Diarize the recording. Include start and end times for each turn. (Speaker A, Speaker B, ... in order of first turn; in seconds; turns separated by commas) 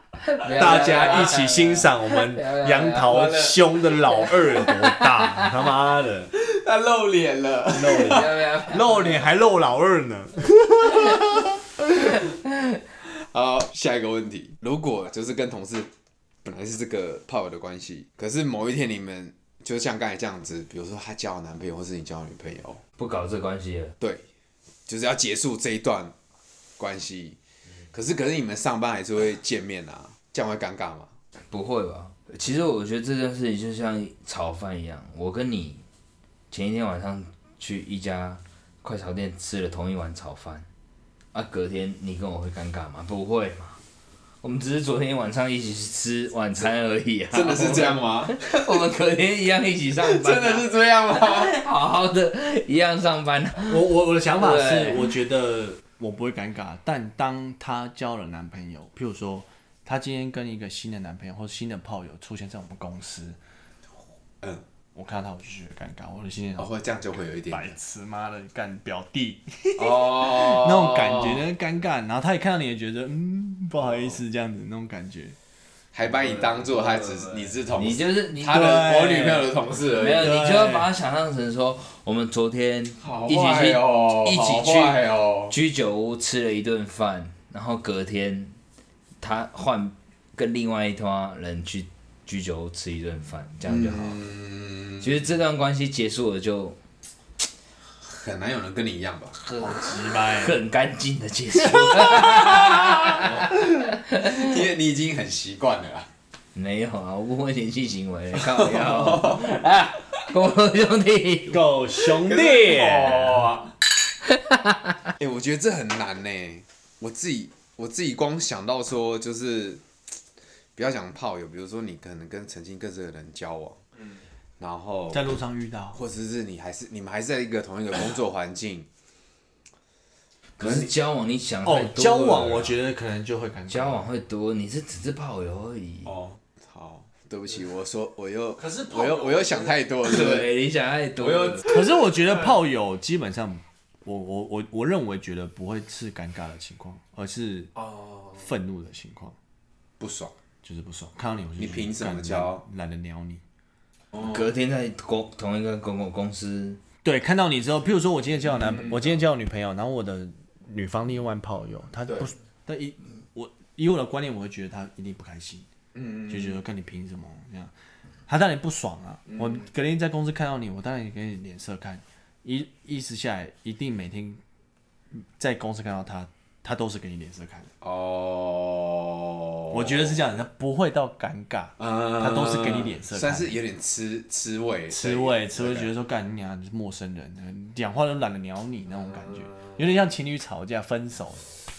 Speaker A: 0.2-3.2, Speaker B: 0.5-6.3, Speaker C: 3.0-3.7, Speaker A: 4.6-5.3, Speaker C: 6.3-8.4, Speaker B: 7.7-11.6, Speaker A: 8.0-9.2, Speaker A: 12.3-12.8, Speaker C: 13.2-15.9, Speaker C: 16.4-22.8, Speaker A: 23.0-23.9, Speaker C: 24.9-26.1, Speaker C: 26.8-27.4, Speaker C: 27.9-31.1, Speaker A: 31.5-35.8, Speaker A: 36.5-40.6, Speaker A: 41.3-43.8, Speaker A: 44.4-53.8, Speaker C: 47.3-48.4, Speaker C: 50.0-51.5, Speaker B: 53.6-63.4, Speaker A: 54.4-55.1, Speaker B: 64.9-66.7, Speaker C: 66.6-67.7, Speaker B: 67.5-75.3, Speaker C: 69.8-71.4, Speaker C: 75.9-80.4, Speaker A: 76.2-78.9, Speaker B: 78.5-79.5, Speaker A: 79.9-88.5, Speaker B: 80.2-80.9, Speaker C: 83.0-85.5, Speaker A: 89.2-94.2, Speaker C: 93.7-95.2, Speaker A: 95.0-96.8, Speaker C: 98.0-99.4, Speaker A: 99.5-104.5, Speaker B: 99.6-100.6, Speaker B: 101.9-103.2, Speaker C: 103.2-103.5, Speaker C: 104.2-106.1, Speaker A: 106.5-111.6, Speaker C: 108.3-109.5, Speaker B: 111.5-113.5, Speaker C: 112.2-113.7, Speaker A: 114.2-115.1, Speaker C: 115.2-119.8, Speaker C: 120.8-123.8, Speaker C: 124.6-125.3, Speaker B: 125.1-126.0, Speaker C: 125.9-128.9, Speaker A: 130.6-132.8, Speaker B: 131.6-134.0, Speaker A: 133.7-136.1, Speaker C: 136.1-140.5, Speaker B: 138.6-139.8, Speaker A: 140.0-141.7, Speaker C: 141.2-141.9, Speaker B: 141.6-147.7, Speaker C: 147.8-148.4, Speaker B: 148.4-149.3, Speaker C: 150.0-150.3, Speaker B: 150.6-153.4, Speaker C: 151.6-152.6, Speaker A: 154.2-156.8, Speaker B: 157.0-165.7, Speaker C: 165.9-166.6, Speaker B: 166.3-167.7, Speaker B: 168.3-174.4, Speaker B: 175.4-177.7, Speaker C: 177.8-180.1, Speaker B: 179.7-183.5, Speaker C: 181.8-185.9, Speaker B: 184.9-191.4